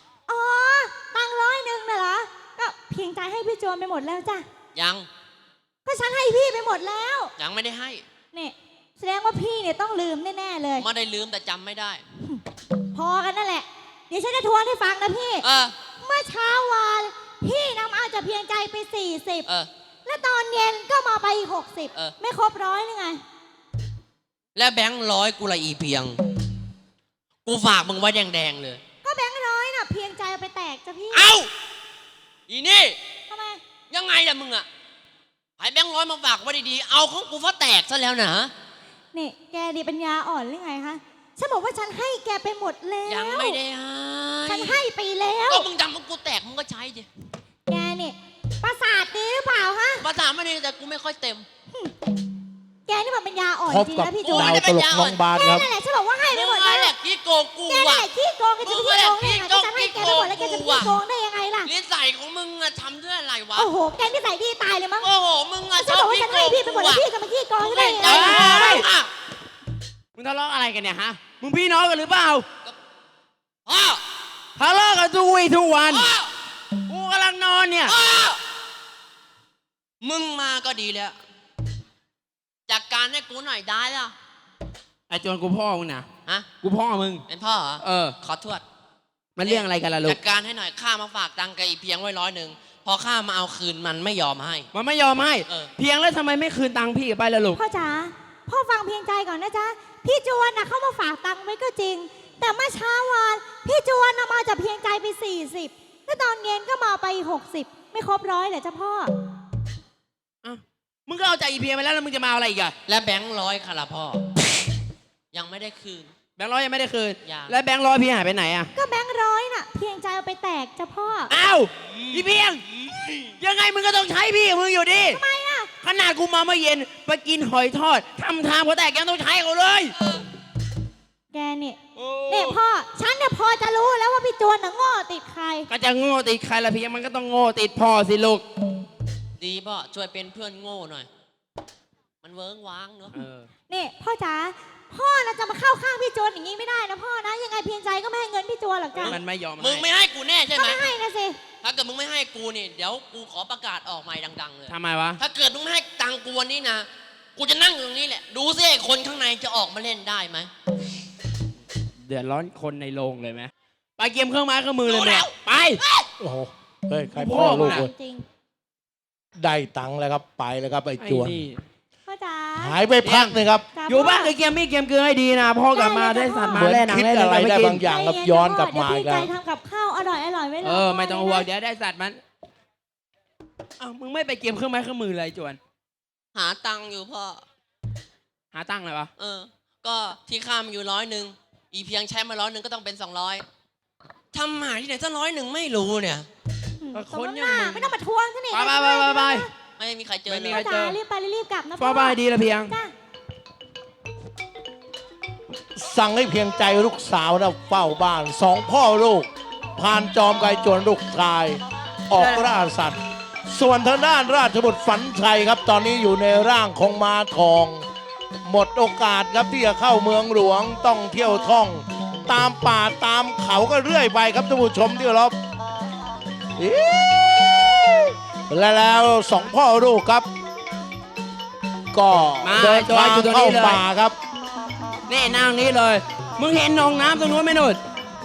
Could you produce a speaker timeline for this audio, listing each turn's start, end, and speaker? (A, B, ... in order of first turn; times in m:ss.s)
0:00.3-0:04.4 A
0:04.7-0:05.1 B
0:05.8-0:07.3 A
0:07.4-0:08.0 B
0:08.3-0:10.8 A
0:10.8-0:12.0 B
0:12.9-0:15.4 A
0:15.4-0:15.7 B
0:16.0-0:19.5 A
0:20.0-0:23.2 A
0:24.5-0:26.2 B
0:27.4-0:28.8 B
0:29.0-0:31.2 A
0:31.1-0:31.5 B
0:32.5-0:33.0 B
0:33.3-0:33.6 A
0:33.9-0:34.7 B
0:35.6-0:38.5 B
0:39.1-0:43.6 A
0:43.0-0:44.8 B
0:44.5-0:45.7 A
0:45.5-0:47.1 B
0:47.7-0:50.0 A
0:50.0-0:51.5 B
0:52.9-0:54.6 A
0:53.7-0:55.7 C
0:54.3-0:55.2 B
0:55.3-0:56.9 A
0:56.3-0:58.1 B
0:57.7-1:01.7 A
0:58.6-1:00.9 B
1:01.6-1:03.7 B
1:03.5-1:05.1 A
1:05.0-1:07.0 B
1:05.8-1:08.8 A
1:07.6-1:09.1 B
1:08.0-1:08.9 D
1:10.1-1:12.4 D
1:13.6-1:14.0 B
1:14.6-1:16.1 D
1:15.9-1:16.3 B
1:16.9-1:18.0 D
1:17.9-1:18.4 B
1:20.0-1:21.2 B
1:22.7-1:24.1 B
1:25.1-1:26.1 D
1:26.6-1:27.2 D
1:27.3-1:28.6 B
1:27.8-1:28.1 D
1:29.4-1:30.2 D
1:29.4-1:34.7 B
1:34.7-1:37.6 D
1:37.5-1:49.1 A
1:50.4-1:52.7 D
1:52.9-1:54.2 B
1:55.3-1:56.1 B
1:56.4-1:58.7 D
1:57.2-1:57.6 B
1:58.7-2:01.3 A
2:01.3-2:02.6 D
2:03.4-2:05.2 D
2:05.1-2:05.7 A
2:05.8-2:10.0 D
2:11.3-2:15.7 A
2:12.0-2:12.6 D
2:15.7-2:18.4 D
2:19.4-2:21.1 B
2:22.2-2:23.1 B
2:23.1-2:23.5 D
2:23.7-2:29.2 A
2:29.0-2:29.8 D
2:29.0-2:30.9 B
2:30.5-2:31.4 A
2:31.6-2:40.5 B
2:34.7-2:35.2 D
2:42.0-2:45.8 D
2:44.8-2:46.1 B
2:46.2-2:47.9 C
2:47.1-2:47.9 D
2:47.3-2:48.2 A
2:49.4-2:51.4 C
2:51.0-2:51.6 D
2:52.1-2:52.8 A
2:52.6-2:53.7 C
2:53.0-2:57.8 D
2:53.7-2:54.3 A
2:55.7-2:56.7 A
2:56.5-2:59.3 C
2:57.8-3:01.5 A
3:00.6-3:02.2 D
3:03.8-3:05.6 D
3:06.3-3:07.4 B
3:08.5-3:09.1 D
3:09.2-3:13.4 B
3:14.3-3:16.2 B
3:16.8-3:19.5 A
3:16.9-3:17.9 D
3:18.5-3:19.5 D
3:19.8-3:20.7 B
3:20.3-3:21.0 D
3:20.5-3:22.9 A
3:21.8-3:22.8 D
3:25.7-3:37.8 C
3:32.2-3:32.5 D
3:38.4-3:45.4 C
3:46.6-3:50.3 C
3:51.9-3:54.2 C
3:52.4-3:53.8 D
3:55.1-3:57.8 D